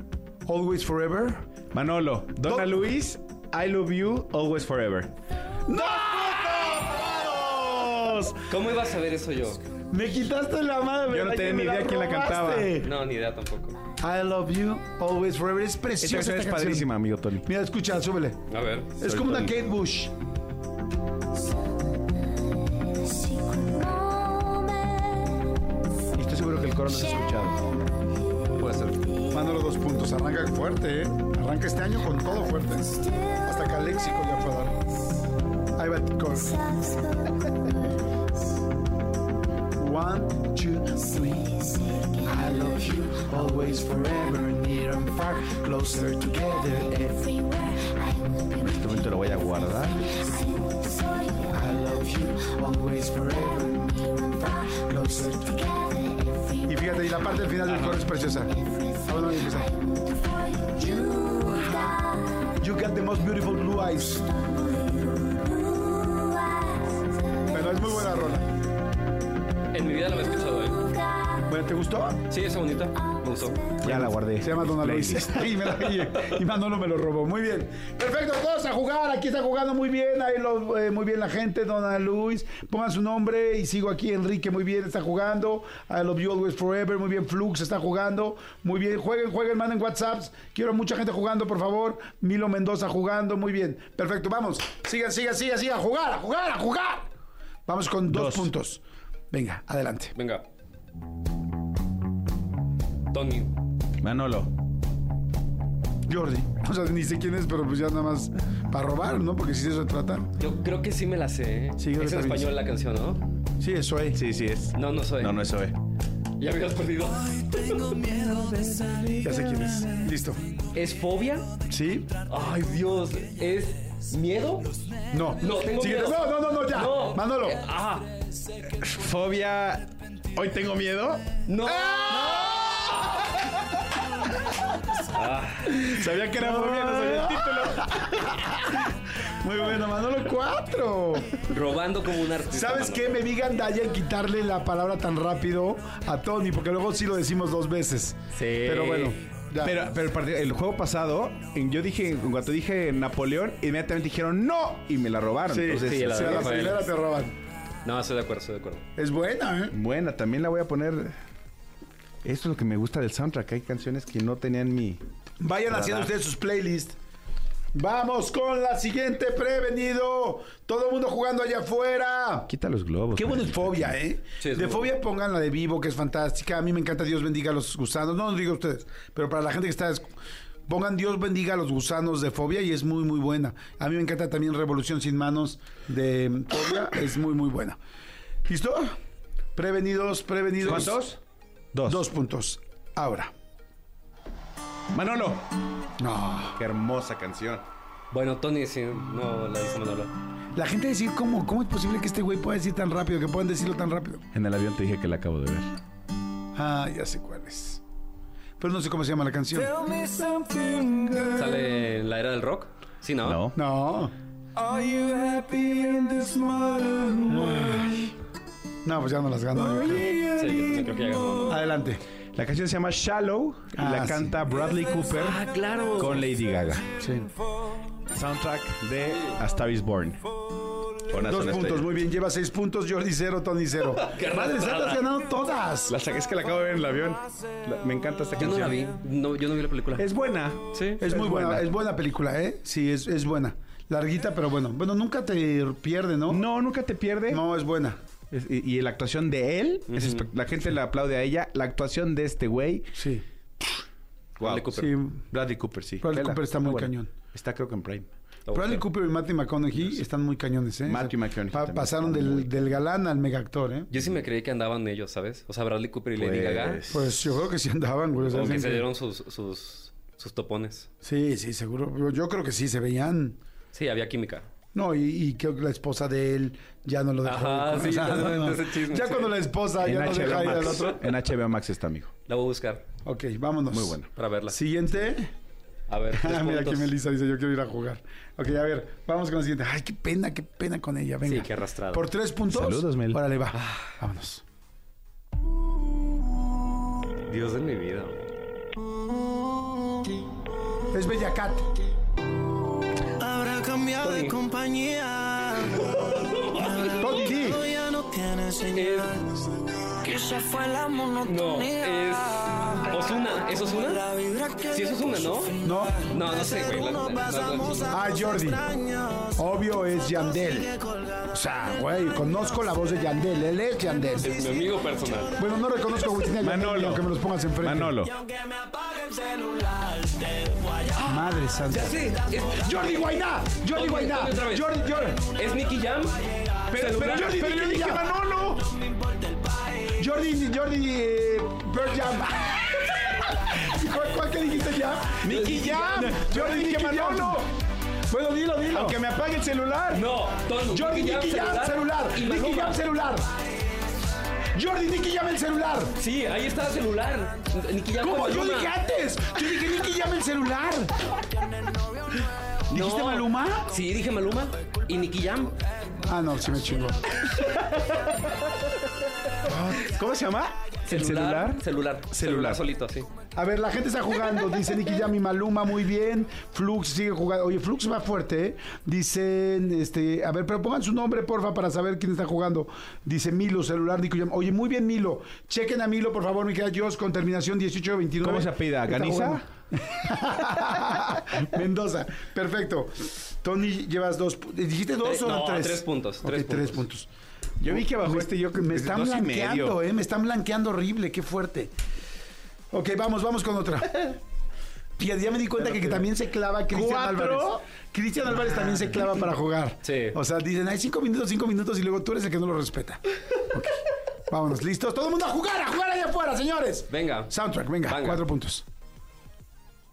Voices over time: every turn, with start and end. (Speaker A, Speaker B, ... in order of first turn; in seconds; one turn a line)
Speaker A: 0.5-1.4
Speaker B: 1.7-5.1
Speaker A: 2.5-2.8
Speaker A: 5.7-8.2
Speaker B: 7.2-8.3
Speaker C: 8.5-9.6
Speaker A: 9.9-12.9
Speaker B: 11.1-12.8
Speaker C: 12.8-13.8
Speaker A: 14.0-16.9
Speaker B: 16.0-17.5
Speaker A: 17.4-18.4
Speaker C: 18.5-19.0
Speaker A: 19.0-20.1
Speaker B: 19.0-19.6
Speaker B: 26.1-27.6
Speaker C: 28.6-29.1
Speaker A: 29.3-34.8
Speaker A: 35.8-37.2
Speaker A: 39.8-48.1
Speaker B: 48.5-50.3
Speaker A: 51.4-66.2
Speaker C: 57.7-58.0
Speaker A: 67.4-68.5
Speaker C: 69.7-71.2
Speaker A: 71.3-72.2
Speaker C: 72.3-73.8
Speaker B: 73.8-75.5
Speaker A: 73.8-97.1
Speaker A: 97.7-100.1
Speaker B: 98.1-98.5
Speaker C: 100.2-100.5
Speaker C: 103.1-103.5
Speaker B: 104.0-104.5
Speaker A: 106.1-110.3
Speaker C: 110.4-113.3
Speaker A: 111.8-112.5
Speaker A: 113.6-114.2
Speaker B: 114.2-115.8
Speaker C: 114.7-115.4
Speaker C: 116.4-118.5
Speaker B: 118.3-119.0
Speaker A: 119.1-120.4
Speaker C: 120.7-121.5
Speaker A: 121.7-122.1
Speaker C: 122.3-124.7
Speaker A: 125.1-127.6
Speaker C: 125.4-128.1
Speaker B: 128.6-131.2
Speaker C: 131.5-132.6
Speaker A: 131.7-133.3
Speaker C: 135.1-135.8
Speaker B: 135.7-138.1
Speaker A: 136.3-141.4
Speaker C: 141.5-143.2
Speaker A: 142.5-149.8
Speaker C: 148.3-149.2
Speaker B: 149.6-156.7
Speaker A: 155.5-157.3
Speaker C: 155.8-156.9
Speaker C: 157.8-158.8
Speaker A: 159.0-159.8
Speaker B: 159.7-161.2
Speaker B: 162.2-165.0
Speaker A: 165.4-167.0
Speaker B: 165.7-166.1
Speaker A: 167.7-172.5
Speaker B: 172.5-174.0
Speaker A: 173.2-180.1
Speaker C: 174.4-174.9
Speaker A: 180.7-187.8
Speaker A: 188.5-188.9
Speaker A: 189.6-191.0
Speaker B: 190.6-191.2
Speaker B: 191.7-192.1
Speaker A: 191.9-193.3
Speaker B: 194.9-195.4
Speaker A: 196.0-196.6
Speaker B: 196.6-197.7
Speaker C: 198.1-200.1
Speaker A: 200.6-204.3
Speaker B: 204.3-205.8
Speaker A: 206.6-207.8
Speaker A: 208.6-209.9
Speaker B: 210.0-211.3
Speaker C: 211.3-213.4
Speaker B: 213.2-213.6
Speaker A: 213.6-214.1
Speaker B: 214.6-218.0
Speaker A: 217.3-218.0
Speaker A: 218.8-220.1
Speaker B: 219.6-221.4
Speaker C: 220.4-221.6
Speaker A: 221.5-222.0
Speaker B: 222.3-225.4
Speaker A: 223.8-224.4
Speaker C: 225.2-226.3
Speaker B: 226.0-226.9
Speaker A: 227.0-227.3
Speaker B: 228.1-230.2
Speaker C: 229.0-229.4
Speaker B: 231.1-231.9
Speaker A: 231.3-235.9
Speaker C: 234.0-235.0
Speaker B: 235.9-238.9
Speaker C: 238.4-240.1
Speaker B: 240.0-241.7
Speaker C: 240.7-241.1
Speaker A: 241.0-246.4
Speaker B: 246.3-247.4
Speaker A: 247.3-248.0
Speaker B: 248.3-252.9
Speaker C: 249.9-250.3
Speaker A: 253.0-253.2
Speaker B: 254.4-258.1
Speaker C: 254.4-254.9
Speaker A: 254.7-255.2
Speaker A: 256.0-257.1
Speaker C: 258.5-258.9
Speaker A: 258.5-263.9
Speaker B: 260.9-262.5
Speaker C: 263.9-266.8
Speaker B: 266.1-267.3
Speaker A: 266.9-268.9
Speaker C: 268.2-270.9
Speaker A: 271.0-273.4
Speaker C: 273.7-274.5
Speaker A: 274.7-281.1
Speaker C: 277.2-279.4
Speaker B: 279.8-282.1
Speaker C: 280.2-280.9
Speaker C: 282.3-282.8
Speaker A: 283.1-285.3
Speaker B: 283.7-284.1
Speaker C: 284.1-284.6
Speaker C: 285.9-286.9
Speaker A: 286.1-294.4
Speaker C: 291.2-292.1
Speaker B: 292.5-293.2
Speaker C: 293.5-293.9
Speaker C: 297.3-298.2
Speaker A: 300.9-301.7
Speaker D: 303.2-305.6
Speaker C: 303.9-304.5
Speaker C: 305.6-307.3
Speaker A: 307.0-307.7
Speaker D: 307.7-308.7
Speaker C: 308.7-309.2
Speaker D: 310.0-311.2
Speaker C: 311.1-318.0
Speaker D: 314.1-314.6
Speaker A: 315.6-316.0
Speaker A: 317.9-318.7
Speaker A: 319.4-320.8
Speaker A: 321.3-324.3
Speaker C: 324.2-325.4
Speaker A: 325.4-328.0
Speaker B: 326.4-327.1
Speaker B: 327.6-328.2
Speaker D: 328.4-330.5
Speaker A: 330.9-332.0
Speaker C: 331.7-333.1
Speaker A: 332.5-335.2
Speaker C: 333.7-337.4
Speaker B: 336.7-338.8
Speaker A: 337.0-338.1
Speaker A: 339.9-347.5
Speaker B: 345.2-347.4
Speaker A: 348.1-349.0
Speaker B: 348.7-350.0
Speaker C: 349.9-352.8
Speaker A: 350.6-353.3
Speaker A: 354.6-355.9
Speaker C: 356.0-358.8
Speaker A: 358.0-360.9
Speaker A: 362.7-363.7
Speaker C: 362.7-365.5
Speaker A: 366.1-367.1
Speaker A: 369.5-369.9
Speaker B: 369.8-372.6
Speaker C: 370.9-373.1
Speaker A: 373.4-397.1
Speaker B: 388.2-389.4
Speaker C: 395.0-396.9
Speaker B: 397.6-399.8
Speaker A: 397.7-401.7
Speaker A: 402.7-404.2
Speaker A: 405.0-413.8
Speaker B: 405.6-406.1
Speaker B: 406.7-407.6
Speaker C: 409.8-410.2
Speaker A: 414.3-418.6
Speaker C: 416.9-417.3
Speaker C: 417.8-418.2